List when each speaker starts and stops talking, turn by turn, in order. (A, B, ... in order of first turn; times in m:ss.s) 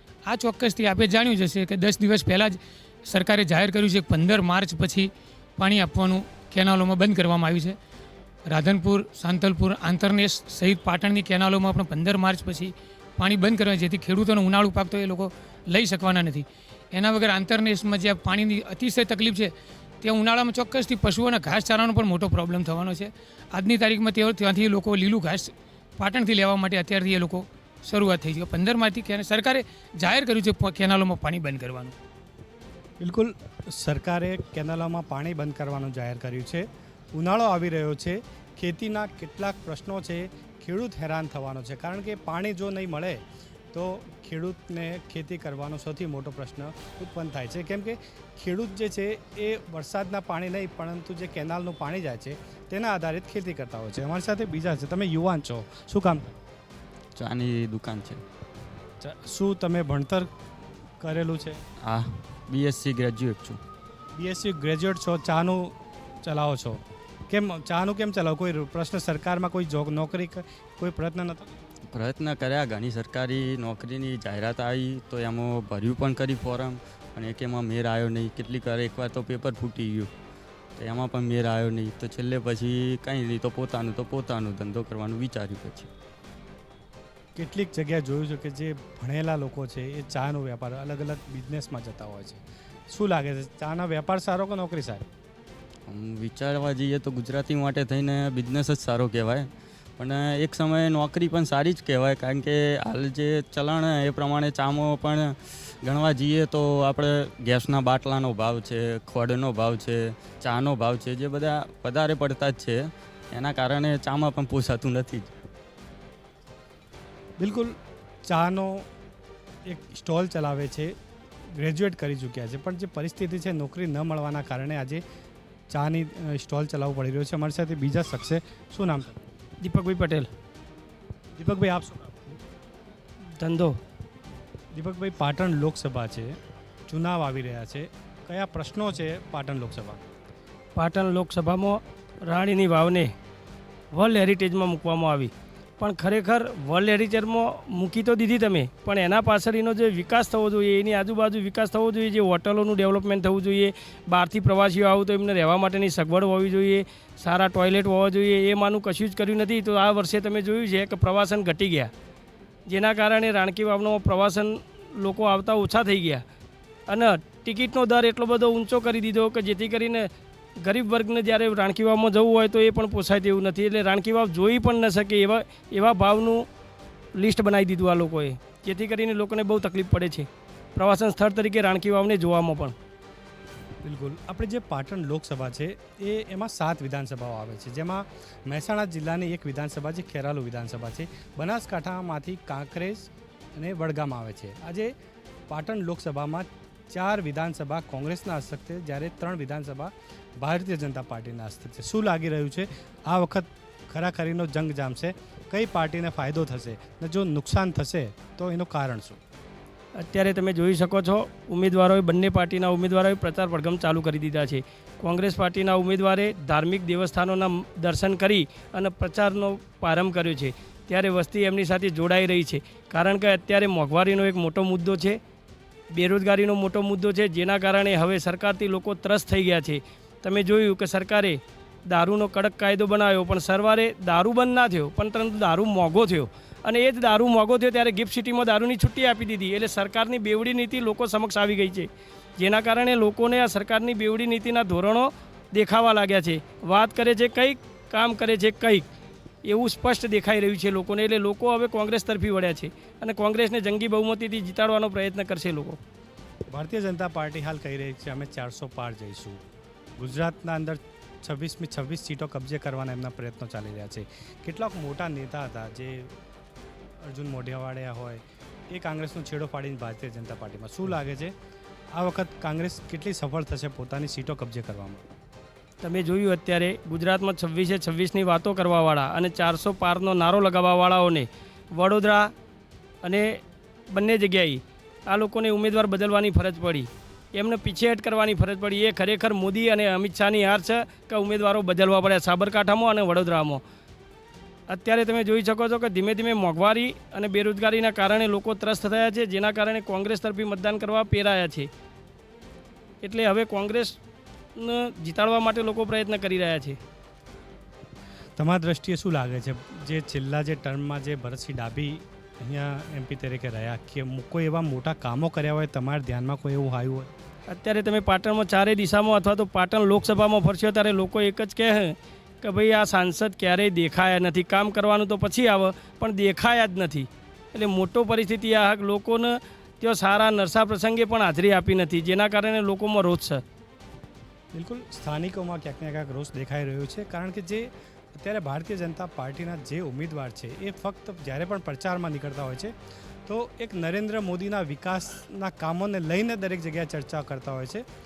0:00.2-0:07.8 A
0:08.5-0:31.9 A
0:33.0-0:43.2 B
0:43.7-0:56.3 B
0:57.2-0:58.2 C
0:59.0-1:00.3 B
1:01.0-1:01.6 B
1:01.8-1:03.6 C
1:04.2-1:11.5 B
1:11.9-1:20.1 C
1:20.8-1:25.9 C
1:27.4-1:35.0 B
1:35.9-1:55.3 C
1:57.4-1:57.7 B
1:58.3-1:58.9 B
1:59.7-2:00.9 B
2:01.6-2:05.0 B
2:05.7-2:09.1 B
2:09.6-2:10.3 D
2:11.4-2:12.2 B
2:13.4-2:13.8 D
2:14.7-2:16.3 B
2:16.9-2:20.0 B
2:20.7-2:23.1 D
2:23.9-2:41.9 D
2:42.7-2:46.2 D
2:46.9-2:56.5 D
2:57.2-3:02.7 D
3:03.8-3:14.9 B
3:15.5-3:29.2 B
3:30.0-3:45.2 D
3:45.9-4:08.8 D
4:09.4-4:15.8 D
4:16.5-4:19.4 B
4:20.0-4:26.1 B
4:27.0-4:31.3 B
4:32.0-4:35.0 B
4:35.8-4:42.3 D
4:43.0-4:53.6 D
4:54.7-5:01.7 D
5:03.0-5:04.0 D
5:04.6-5:06.8 D
5:08.4-5:17.1 B
5:17.5-5:33.4 D
5:34.5-5:42.7 B
5:43.3-5:47.8 B